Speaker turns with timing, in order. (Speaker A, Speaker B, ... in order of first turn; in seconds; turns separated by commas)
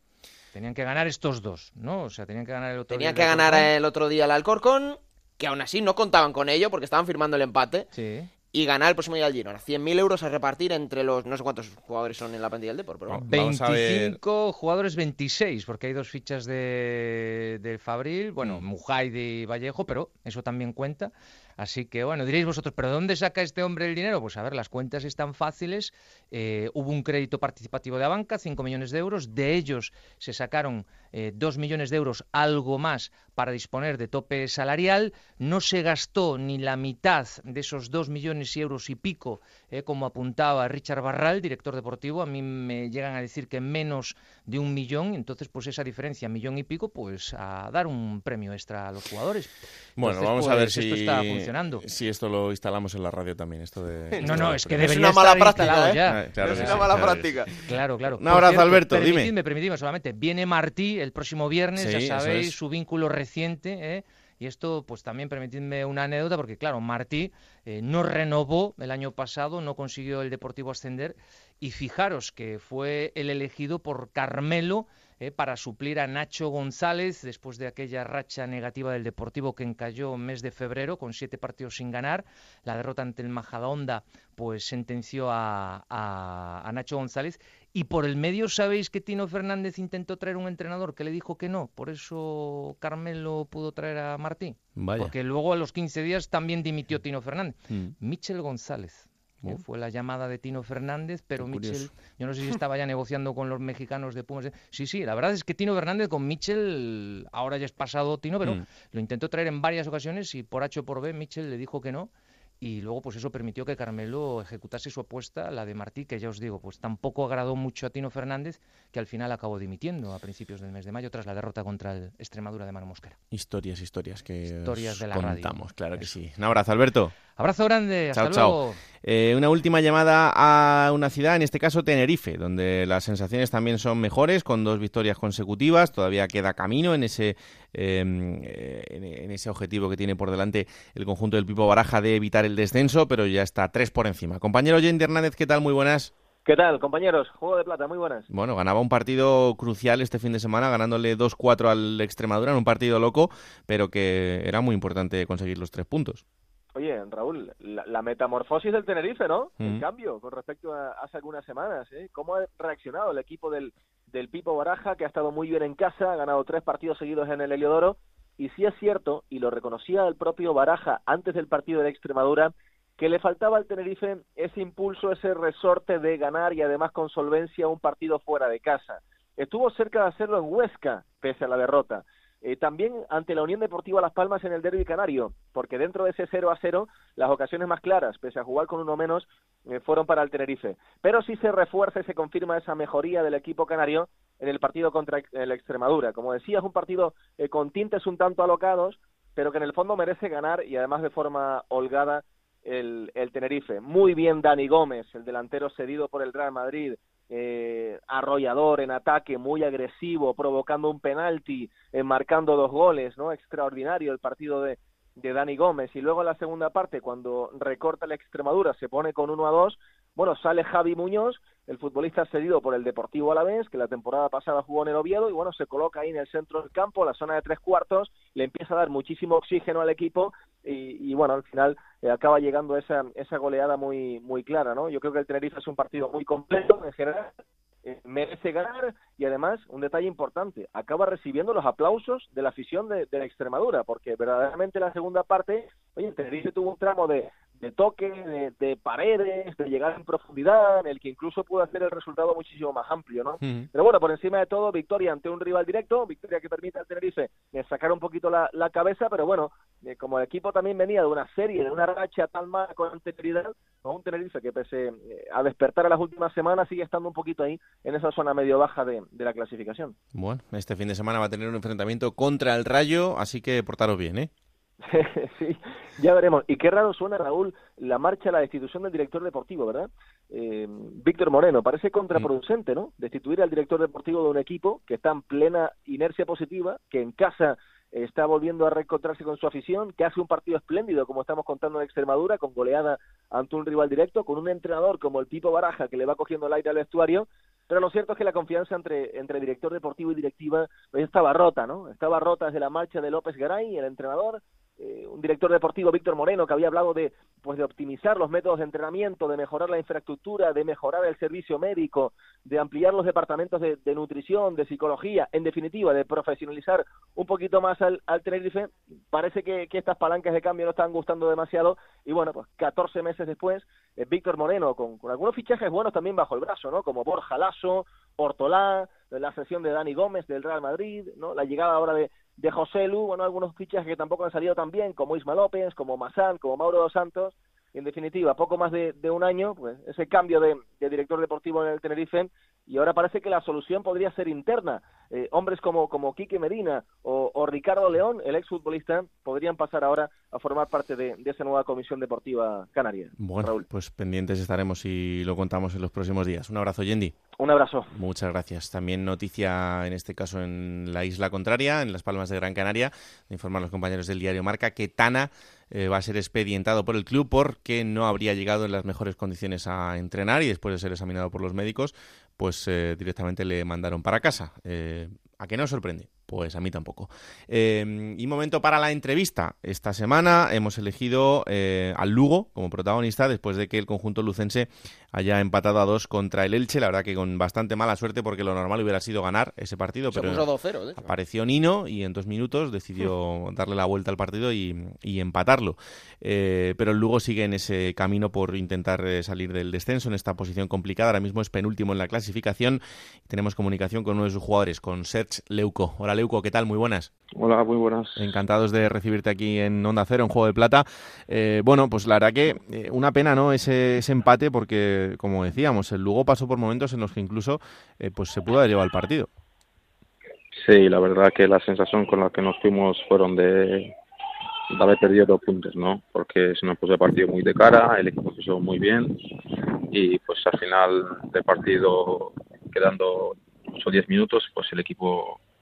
Speaker A: 0.5-3.7, Speaker B: 2.9-7.9, Speaker A: 7.9-8.3, Speaker B: 8.5-13.2, Speaker C: 13.1-14.2, Speaker A: 13.2-51.8, Speaker C: 50.0-55.0, Speaker B: 54.2-57.5, Speaker A: 54.2-123.2, Speaker C: 56.0-57.5, Speaker C: 58.1-59.3, Speaker C: 61.8-62.6, Speaker C: 94.8-95.1, Speaker C: 101.4-101.9, Speaker C: 123.3-127.2, Speaker A: 124.6-126.1, Speaker A: 127.3-128.8, Speaker C: 128.1-146.1, Speaker D: 146.4-148.3, Speaker C: 148.3-156.2, Speaker D: 156.8-269.9, Speaker C: 270.1-274.3, Speaker D: 274.8-353.6, Speaker C: 353.2-357.2, Speaker D: 357.4-357.9, Speaker C: 357.9-390.5, Speaker B: 390.1-391.1, Speaker C: 391.0-407.1, Speaker E: 407.4-408.3, Speaker C: 408.2-419.3, Speaker E: 420.5-424.0, Speaker E: 424.7-435.4